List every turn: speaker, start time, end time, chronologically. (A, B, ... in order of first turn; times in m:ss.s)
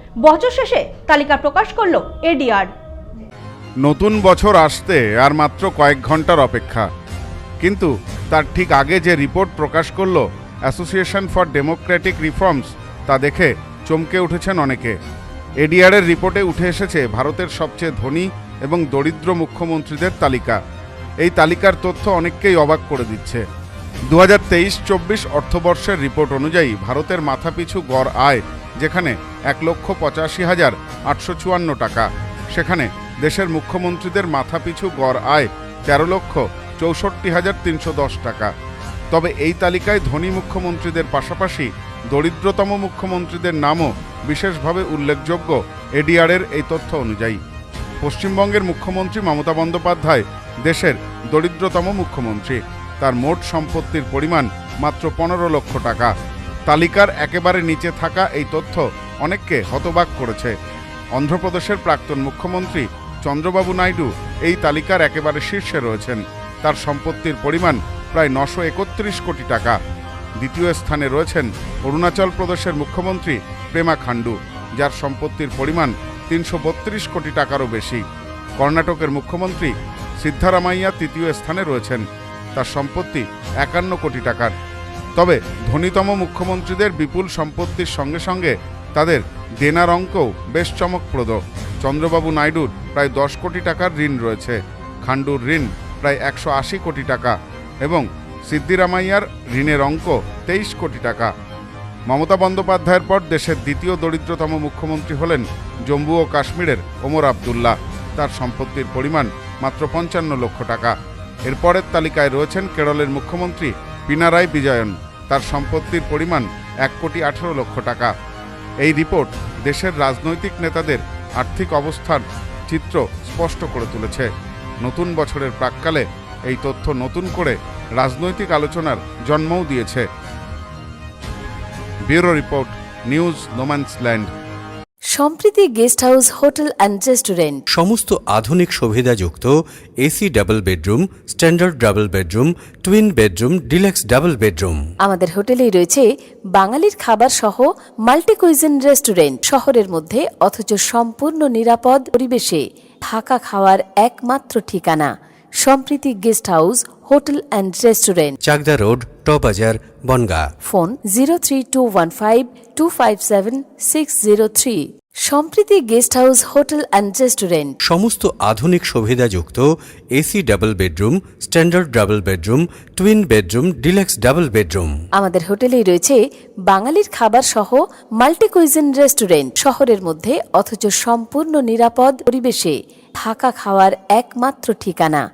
0:00.2-0:02.7 A
0:03.8-0:06.8 B
0:07.6-0:15.0 B
0:15.6-0:20.6 B
0:21.2-0:23.4 B
0:24.1-0:38.5 B
0:39.1-0:47.4 B
0:48.0-0:56.1 B
0:56.7-1:00.5 B
1:01.1-1:09.8 B
1:10.4-1:18.0 B
1:18.6-1:24.5 B
1:25.2-1:41.3 B
1:42.1-1:50.9 B
1:51.5-1:58.1 B
1:58.8-2:04.3 B
2:04.8-2:10.0 B
2:12.1-2:14.3 B
2:15.1-2:17.6 C
2:17.7-2:24.8 D
2:25.0-2:35.1 C
2:35.6-2:38.4 C
2:38.4-2:40.5 D
2:40.6-2:47.8 C
2:47.8-2:54.9 D
2:55.2-3:05.2 C